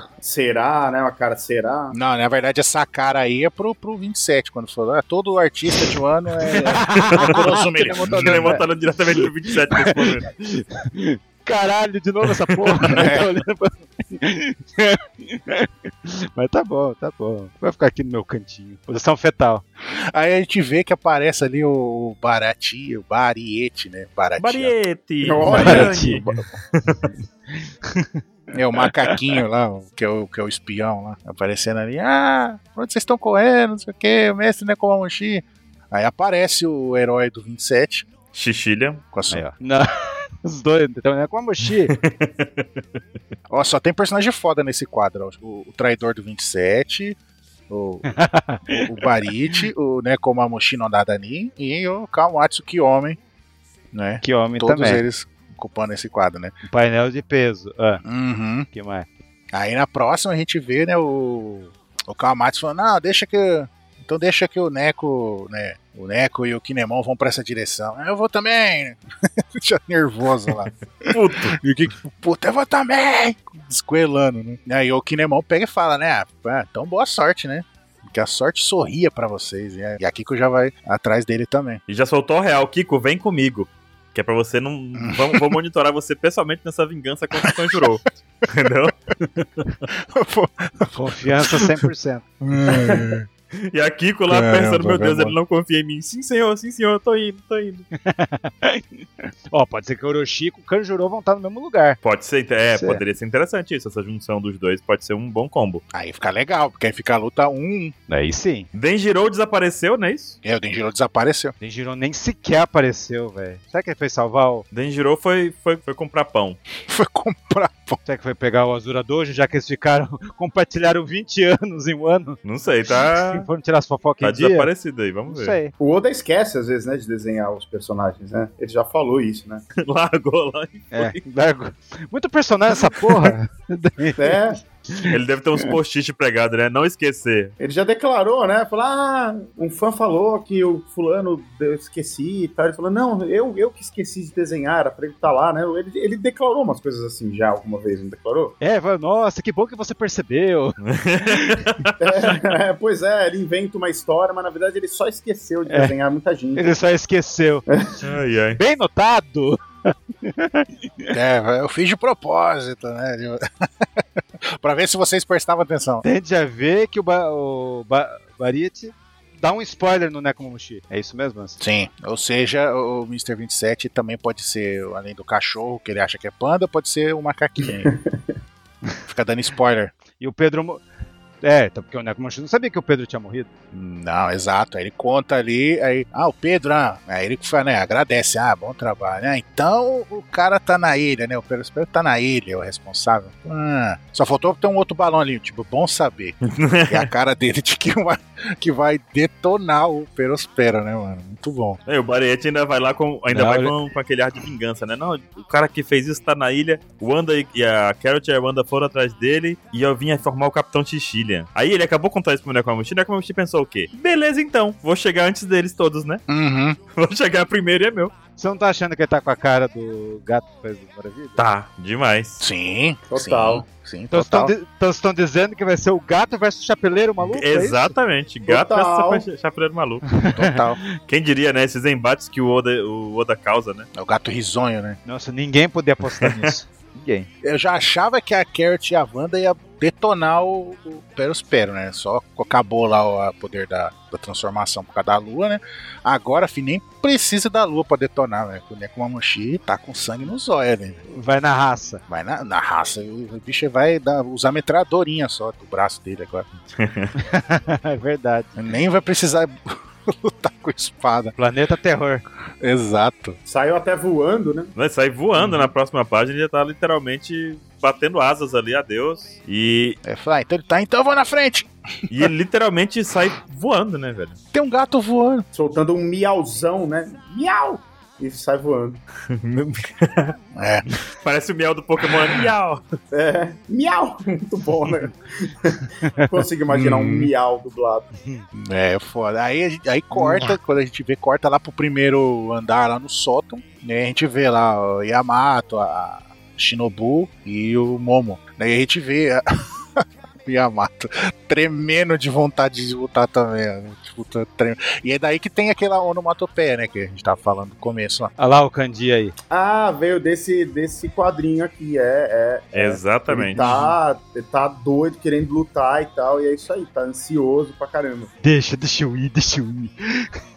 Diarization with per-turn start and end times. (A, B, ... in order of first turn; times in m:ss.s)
0:00.2-0:02.0 A
0:01.9-0:08.6 B
0:06.4-0:19.6 C
0:07.0-0:07.3 D
0:08.0-0:10.3 D
0:12.9-0:13.3 B
0:19.8-0:24.7 B
0:24.4-0:27.0 D
0:25.2-0:26.4 A
0:25.4-0:26.2 C
0:25.5-0:25.9 B
0:27.6-0:28.2 C
0:28.5-0:38.1 B
0:38.3-0:39.0 D
0:39.1-0:39.4 B
0:39.3-0:42.0 C
0:41.9-0:42.6 D
0:43.5-0:47.2 B
0:47.7-0:48.1 B
0:48.1-0:48.9 C
0:48.8-0:53.2 B
0:53.9-0:56.5 B
0:54.2-0:55.0 C
0:56.6-0:58.0 C
0:58.0-0:58.7 B
0:58.7-0:59.1 C
0:59.5-1:21.8 B
1:11.0-1:11.6 D
1:21.9-1:29.7 D
1:24.9-1:25.6 B
1:27.4-1:27.8 B
1:29.9-1:31.7 B
1:30.9-1:32.2 C
1:32.4-1:33.3 B
1:33.5-1:37.8 D
1:34.3-1:35.4 B
1:37.9-1:42.0 C
1:42.0-1:45.8 D
1:42.7-1:43.0 C
1:45.9-1:47.9 B
1:48.1-1:48.7 C
1:48.7-1:50.4 D
1:50.4-1:51.5 B
1:51.6-1:54.6 C
1:54.7-1:56.6 D
1:56.8-1:58.0 B
1:58.0-2:04.7 C
2:02.4-2:03.5 D
2:04.2-2:05.6 D
2:05.3-2:05.7 C
2:05.8-2:09.6 A
2:09.8-2:11.2 D
2:10.9-2:15.1 C
2:12.9-2:13.3 D
2:14.2-2:14.6 A
2:15.1-2:17.5 D
2:17.6-2:28.6 A
2:28.6-2:30.8 C
2:30.8-2:32.4 D
2:31.3-2:31.7 C
2:32.0-2:36.6 A
2:35.7-2:35.9 C
2:36.6-2:37.6 C
2:37.7-2:37.9 A
2:38.0-2:38.6 D
2:38.6-2:41.1 C
2:41.1-2:43.4 B
2:44.5-2:46.0 B
2:46.0-2:51.6 C
2:51.6-2:57.9 B
2:57.7-2:58.2 A
2:59.1-2:59.9 B
3:00.2-3:00.8 C
3:01.4-3:03.5 C
3:03.7-3:16.4 B
3:16.5-3:17.1 D
3:16.9-3:21.8 B
3:21.8-3:36.2 D
3:23.3-3:23.8 C
3:36.3-3:36.8 B
3:36.9-3:38.1 D
3:38.4-3:41.4 C
3:41.4-3:42.4 D
3:42.4-3:44.5 B
3:43.1-3:43.6 A
3:44.1-3:47.9 C
3:47.2-3:50.0 D
3:48.5-3:49.2 A
3:50.2-3:50.6 C
3:50.3-3:50.8 B
3:51.1-3:53.9 D
3:53.9-3:55.0 B
3:55.0-3:57.3 C
3:56.0-3:56.5 D
3:57.4-4:11.0 B
4:11.1-4:12.0 C
4:12.1-4:16.5 B
4:16.8-4:17.1 D
4:17.2-4:18.5 C
4:18.6-4:21.3 B
4:21.4-4:22.2 C
4:22.6-4:23.4 B
4:23.4-4:24.7 A
4:24.7-4:30.0 D
4:30.0-4:32.3 B
4:32.1-4:34.4 D
4:34.5-4:35.4 B
4:35.5-4:39.0 A
4:39.3-4:40.4 D
4:40.5-4:40.8 B
4:41.2-4:42.8 D
4:43.1-4:48.1 A
4:46.0-4:46.3 C
4:46.7-4:47.3 B
4:48.5-4:59.4 B
4:50.1-4:50.6 C
5:00.0-5:08.3 B
5:08.4-5:09.3 C
5:09.5-5:18.3 A
5:12.7-5:13.6 D
5:13.6-5:13.9 B
5:18.4-5:20.3 C